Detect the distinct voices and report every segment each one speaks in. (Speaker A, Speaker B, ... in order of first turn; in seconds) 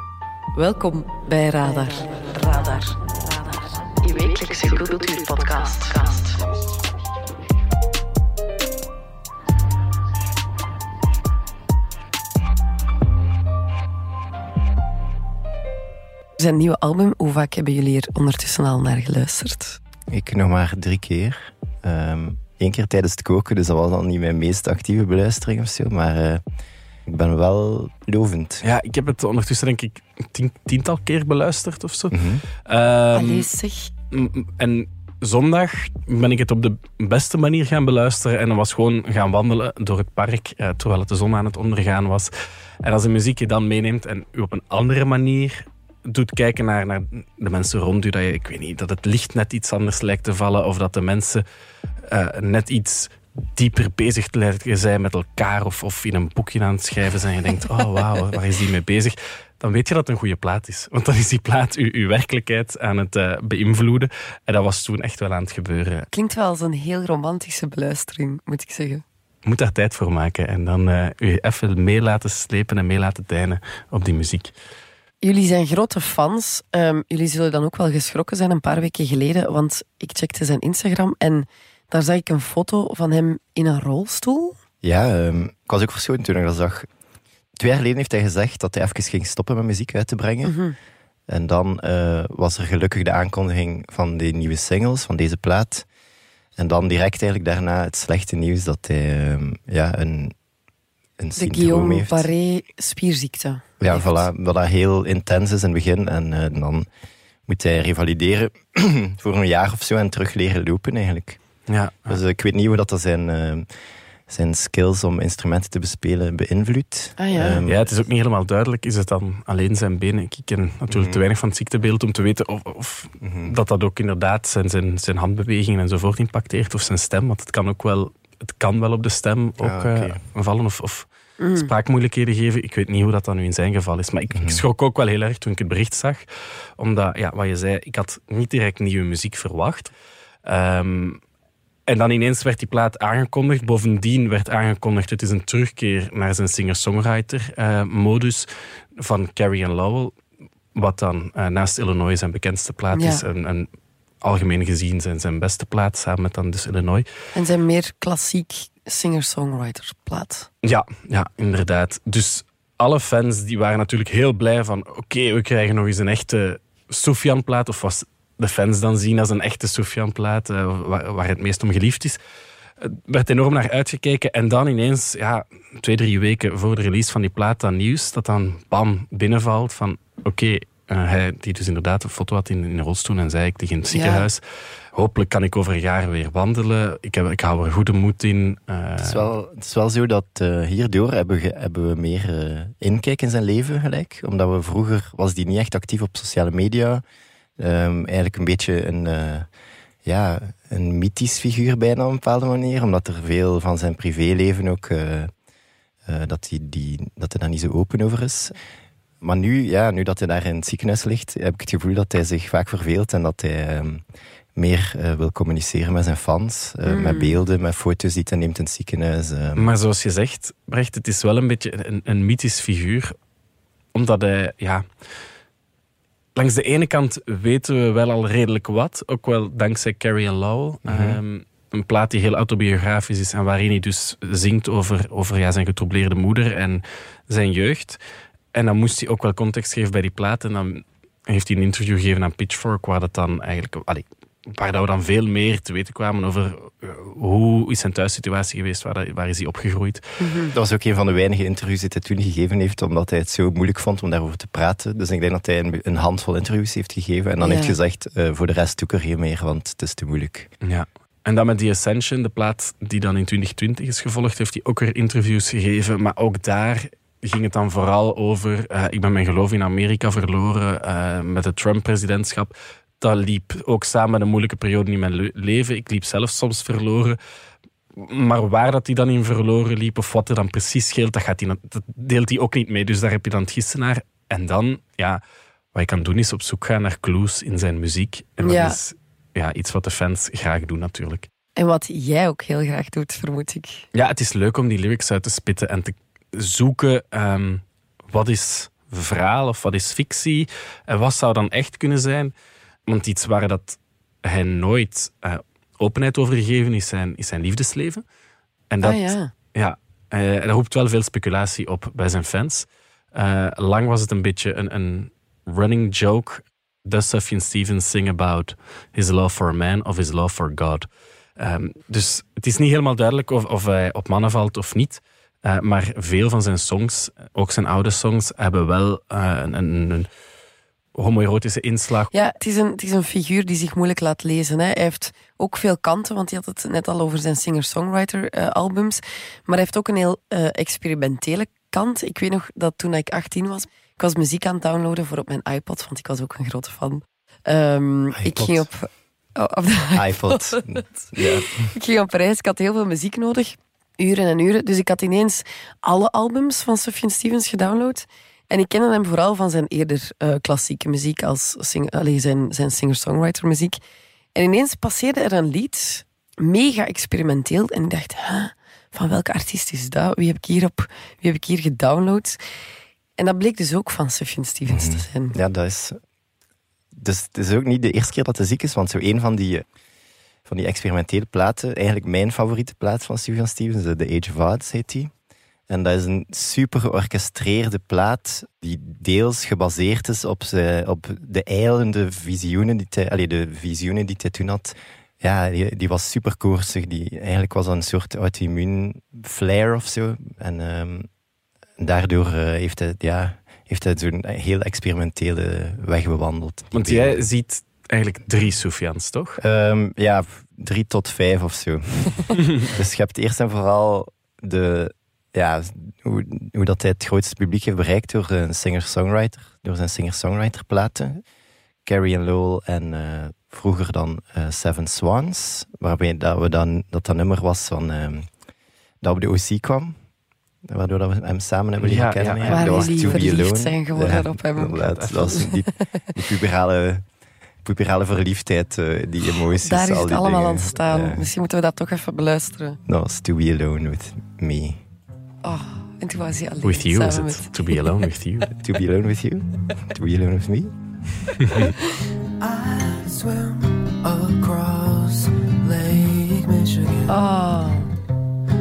Speaker A: 0.5-6.4, 16.4-19.8, 33.1-33.9, 66.1-69.0, 75.2-84.6, 90.4-90.8, 101.4-104.2, 117.2-117.6, 131.4-131.7, 152.9-153.2, 157.3-160.5, 183.9-184.3, 216.8-217.4, 250.2-250.5, 257.4-257.8, 288.4-288.8, 291.6-293.8, 308.8-309.3, 332.1-363.8, 364.3-372.4, 373.2-375.4, 432.5-436.1, 439.5-442.8, 445.4-447.9, 457.1-457.9
Speaker B: 20.1-26.4, 27.1-28.6, 32.1-32.4, 84.8-86.9, 87.6-90.6, 91.3-95.9, 96.6-100.3, 101.2-102.3, 103.8-106.9, 107.5-111.4, 112.1-113.7, 114.3-117.8, 120.9-121.2, 123.2-123.5, 129.6-130.2, 134.3-134.6, 189.0-197.0, 197.6-199.5, 200.0-205.3, 206.1-208.5, 209.2-214.0, 214.5-219.7, 230.8-231.2, 250.5-260.5, 348.1-348.6, 349.9-351.7, 374.7-376.0, 376.9-379.6, 380.4-385.1, 385.7-401.1, 401.8-407.2, 409.4-421.2, 421.8-428.3, 429.0-430.0, 430.7-437.0, 437.6-441.3, 442.9-444.8, 448.6-450.7
Speaker C: 28.6-33.5, 34.1-42.3, 42.8-51.4, 52.0-66.1, 69.4-74.5, 111.7-112.2, 117.6-136.2, 136.8-139.9, 140.4-141.2, 141.9-150.2, 150.7-153.7, 154.2-157.1, 160.6-172.2, 172.8-184.4, 184.9-189.3, 219.6-223.1, 223.9-224.8, 226.3-238.0, 238.5-250.0, 260.6-277.2, 277.9-285.2, 285.7-291.3, 293.9-302.3, 302.9-308.0, 308.7-320.9, 321.4-330.1, 330.9-332.1, 406.7-409.4, 431.8-433.4, 434.9-435.3, 446.6-448.5, 451.4-451.7
Speaker D: 452.4-457.2